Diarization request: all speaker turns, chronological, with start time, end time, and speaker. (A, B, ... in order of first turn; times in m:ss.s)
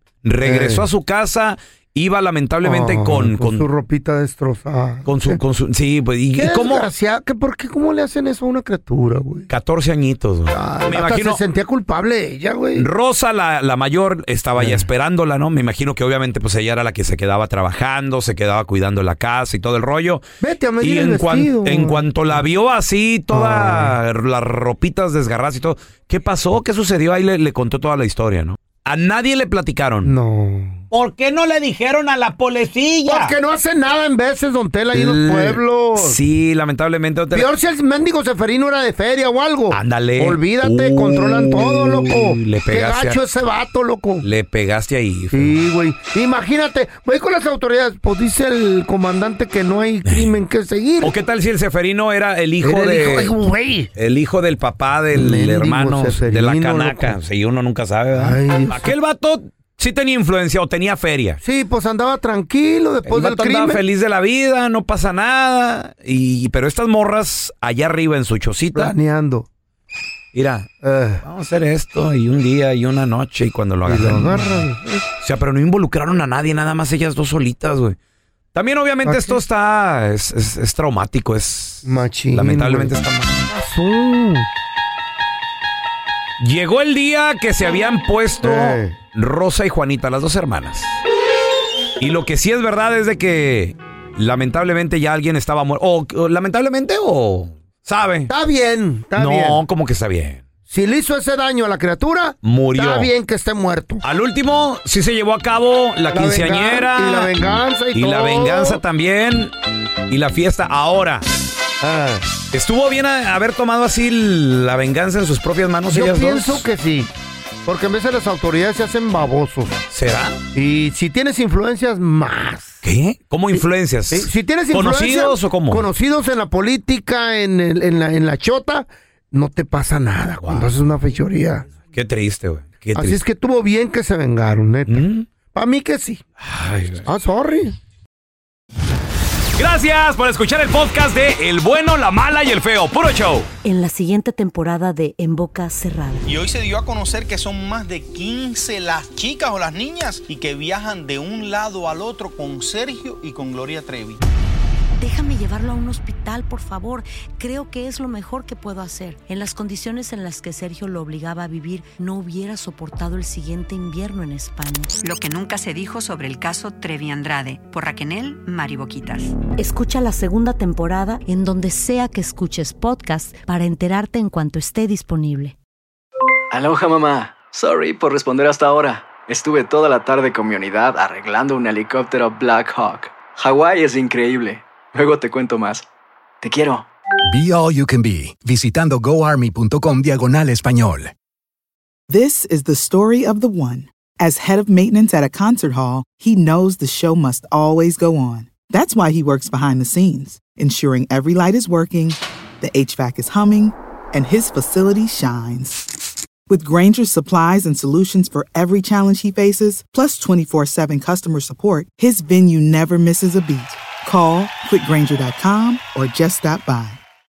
0:00.2-0:03.6 A
0:00.4-0:00.8 B
0:02.6-0:05.4 B
0:05.0-0:06.9 A
0:06.4-0:09.5 B
0:09.5-0:11.4 A
0:10.5-0:12.9 B
0:12.7-0:20.2 A
0:14.6-0:14.9 B
0:20.4-0:22.0 B
0:20.8-0:30.1 A
0:23.3-0:24.0 B
0:30.0-0:30.8 B
0:30.9-0:33.4 A
0:33.1-0:36.2 B
0:34.9-0:37.5 A
0:37.3-0:44.2 B
0:39.7-0:43.2 A
0:44.2-0:45.6 A
0:45.3-0:51.1 B
0:50.0-0:50.3 A
0:51.0-0:53.3 A
0:52.6-0:53.9 B
0:54.0-1:01.4 A
0:55.1-0:57.2 B
0:58.1-0:58.9 B
1:01.4-1:03.8 B
1:03.0-1:08.9 A
1:08.7-1:09.5 B
1:10.3-1:10.7 A
1:10.8-1:11.2 B
1:11.2-1:14.6 A
1:13.8-1:15.1 B
1:15.2-1:18.0 A
1:18.5-1:23.4 A
1:19.0-1:19.4 B
1:21.8-1:24.5 B
1:26.4-1:31.0 A
1:28.4-1:29.0 B
1:32.0-1:38.3 A
1:38.3-1:39.6 B
1:39.2-1:40.4 A
1:40.7-1:44.0 B
1:42.4-1:43.1 A
1:44.0-1:47.3 A
1:46.1-1:48.8 B
1:47.9-1:49.5 A
1:50.1-1:51.2 A
1:51.8-1:52.2 B
1:52.5-1:56.6 A
1:55.9-1:57.1 B
1:57.6-1:59.8 B
1:59.9-2:00.4 A
2:00.5-2:02.8 B
2:02.8-2:05.9 A
2:04.1-2:11.7 B
2:10.4-2:10.7 A
2:11.9-2:13.2 A
2:12.9-2:16.2 B
2:14.9-2:15.3 A
2:16.4-2:17.0 A
2:17.0-2:17.7 B
2:19.6-2:23.5 A
2:23.6-2:26.2 C
2:26.2-2:34.2 D
2:35.0-2:44.9 C
2:45.0-2:49.4 E
2:49.6-2:55.5 C
2:56.5-3:05.8 F
3:06.4-3:06.9 F
3:07.3-3:11.1 G
3:12.1-3:25.9 H
3:26.5-3:37.0 H